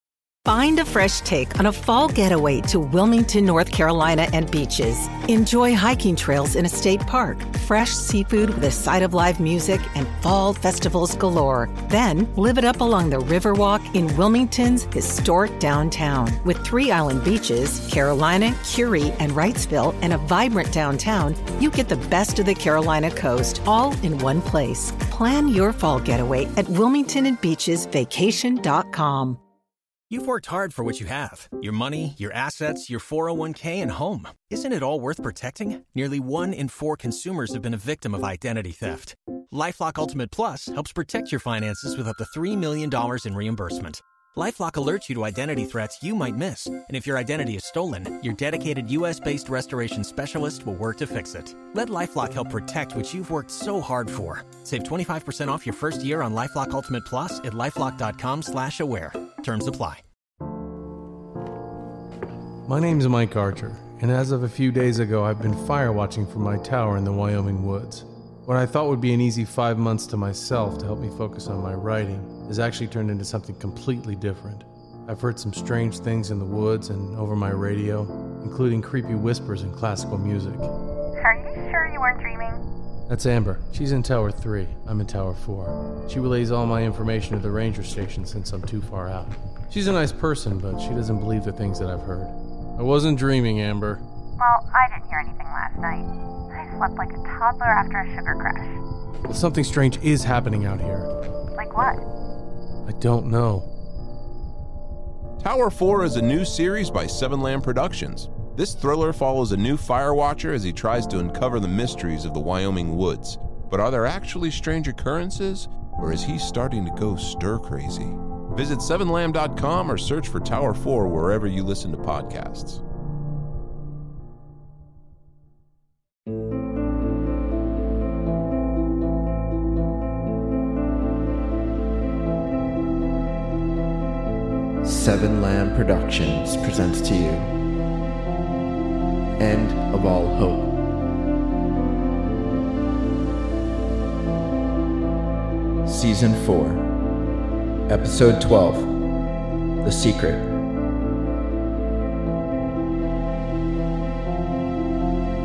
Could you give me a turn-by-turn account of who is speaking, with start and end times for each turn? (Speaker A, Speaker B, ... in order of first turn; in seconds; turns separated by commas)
Speaker A: 0.4-29.4, Speaker B: 30.1-60.0, Speaker C: 62.6-80.7, Speaker D: 81.2-82.6, Speaker C: 83.1-94.0, Speaker D: 94.4-98.8, Speaker C: 99.3-101.1, Speaker D: 101.5-102.0, Speaker C: 102.8-103.7, Speaker E: 105.4-122.8, Speaker F: 134.8-137.5, Speaker F: 139.4-140.8, Speaker F: 145.8-146.9, Speaker F: 147.9-148.9, Speaker F: 149.8-150.5